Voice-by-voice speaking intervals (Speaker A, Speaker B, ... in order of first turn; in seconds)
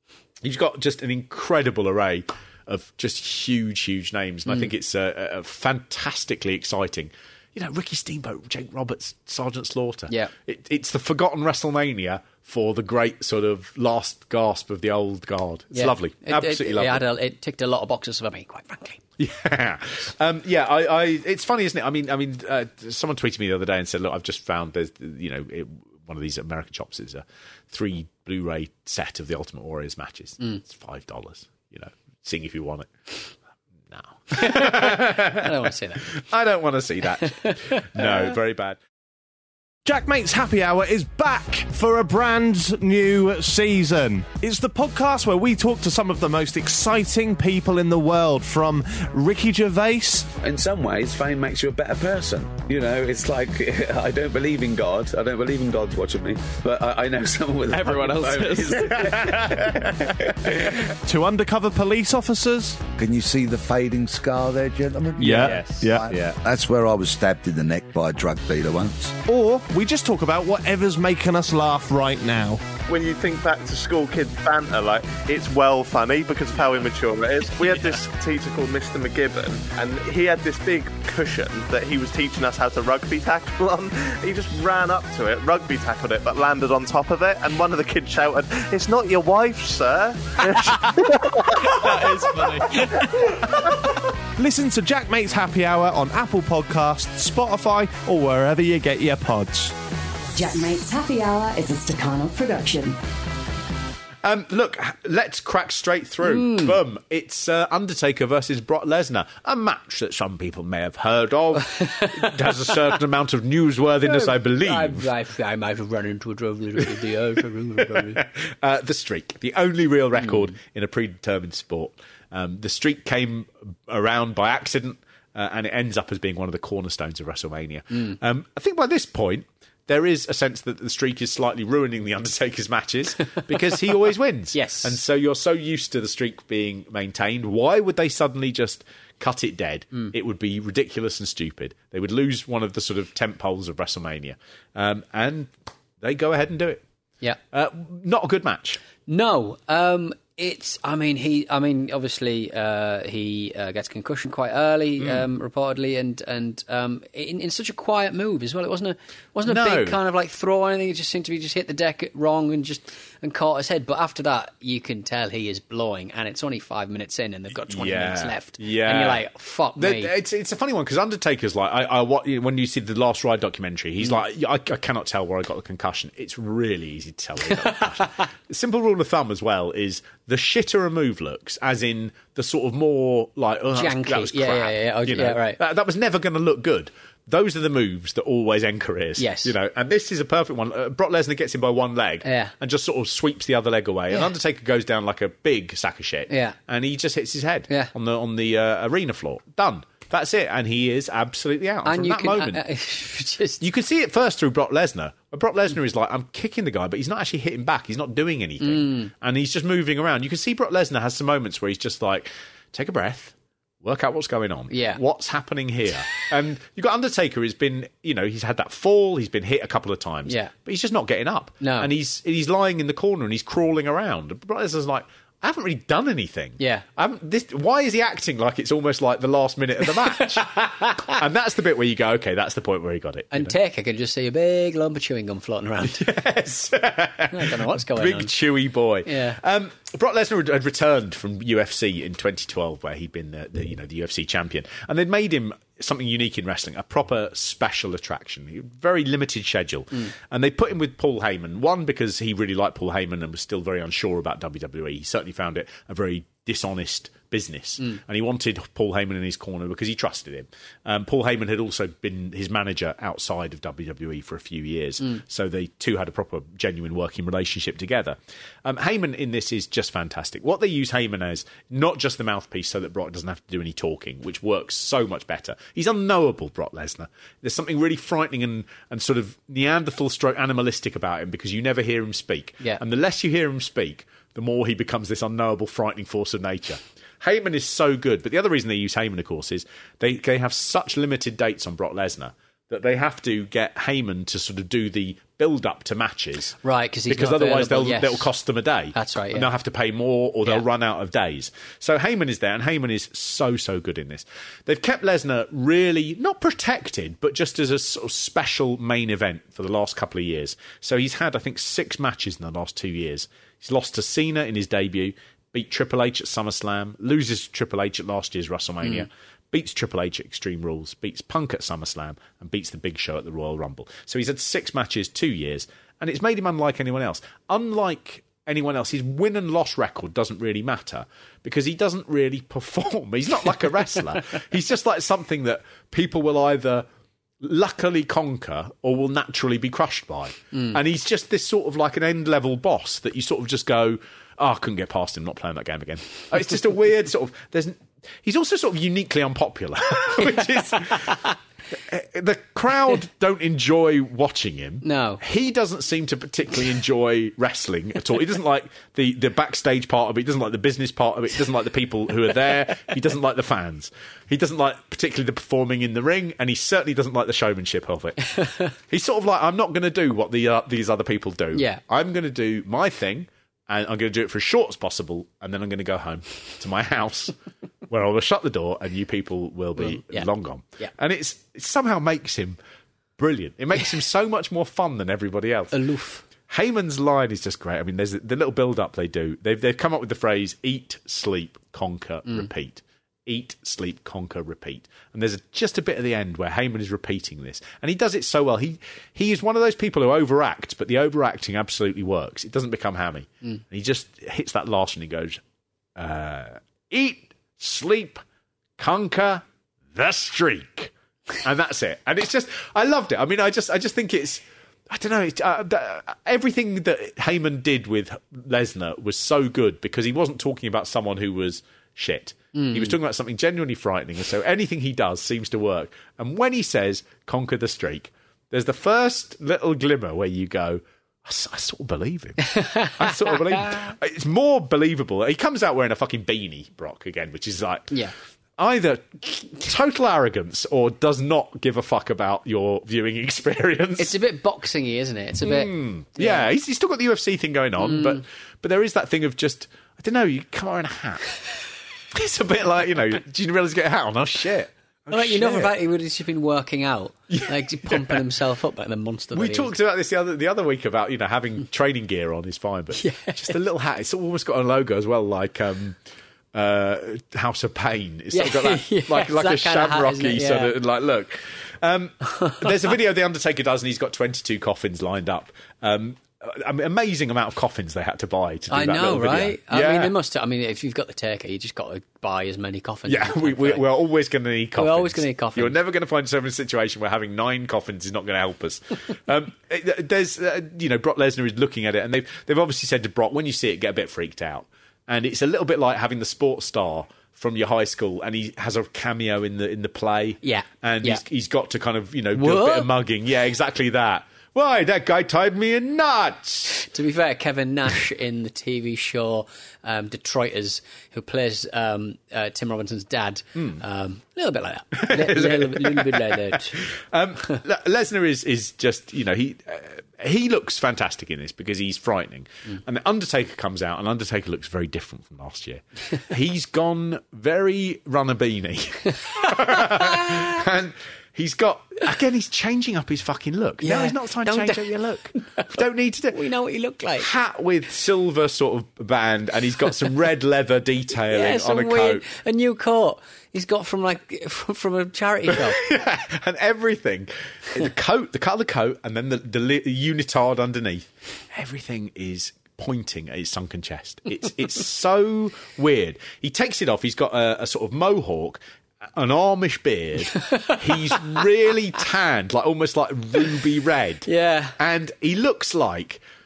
Speaker A: 0.4-17.1, 19.2-32.9, 33.9-38.8, 65.2-66.2, 104.2-115.1, 117.8-146.8, 147.5-148.8, 155.0-155.2, 159.4-160.0, 167.7-169.2, 169.8-202.6, 203.6-233.6, 235.8-336.9, 337.4-351.2, 351.7-368.3, 368.9-377.3, 377.9-382.6, 383.2-385.8, 386.4-405.4, 406.0-408.2, 408.8-438.0, 438.6-444.1, 445.4-451.3, 452.1-455.7, 457.3-458.2, 459.3-466.0, 466.5-480.1, 483.1-506.9, 513.6-513.8, 514.9-536.4, 537.2-542.2, 545.5-558.6, 559.1-564.3, 564.8-566.2
Speaker B: 15.7-19.0, 34.3-36.1, 37.3-38.1, 106.2-106.8, 111.8-112.7, 114.0-118.2, 120.2-120.5, 134.5-135.0, 149.1-170.1, 177.6-178.2, 183.7-185.6, 189.2-189.5, 192.2-192.5, 196.3-196.6, 201.8-203.6, 208.6-209.1, 214.7-215.0, 220.3-220.5, 221.6-221.9, 226.6-226.8, 233.3-236.0, 237.3-238.3, 239.1-239.4, 296.6-298.3, 298.9-299.5, 340.5-340.8, 350.2-351.3, 354.8-355.2, 368.3-368.7, 371.6-371.8, 379.8-380.9, 385.7-386.2, 422.5-423.0, 432.4-433.9, 444.0-446.5, 447.8-448.2, 455.1-459.7, 462.9-463.6, 468.3-470.8, 472.4-472.7, 478.7-483.8, 484.8-485.7, 500.4-501.2, 502.4-502.9, 506.7-516.9, 529.4-530.6, 533.8-535.7, 536.3-537.3, 541.3-545.8, 560.4-560.8, 564.3-564.8
Speaker C: 39.9-50.3, 61.1-62.8, 69.3-72.6, 94.4-99.7
Speaker D: 50.3-59.9, 60.5-60.8, 65.3-66.3
Speaker E: 62.9-69.2
Speaker F: 72.9-93.5
Speaker G: 100.4-102.9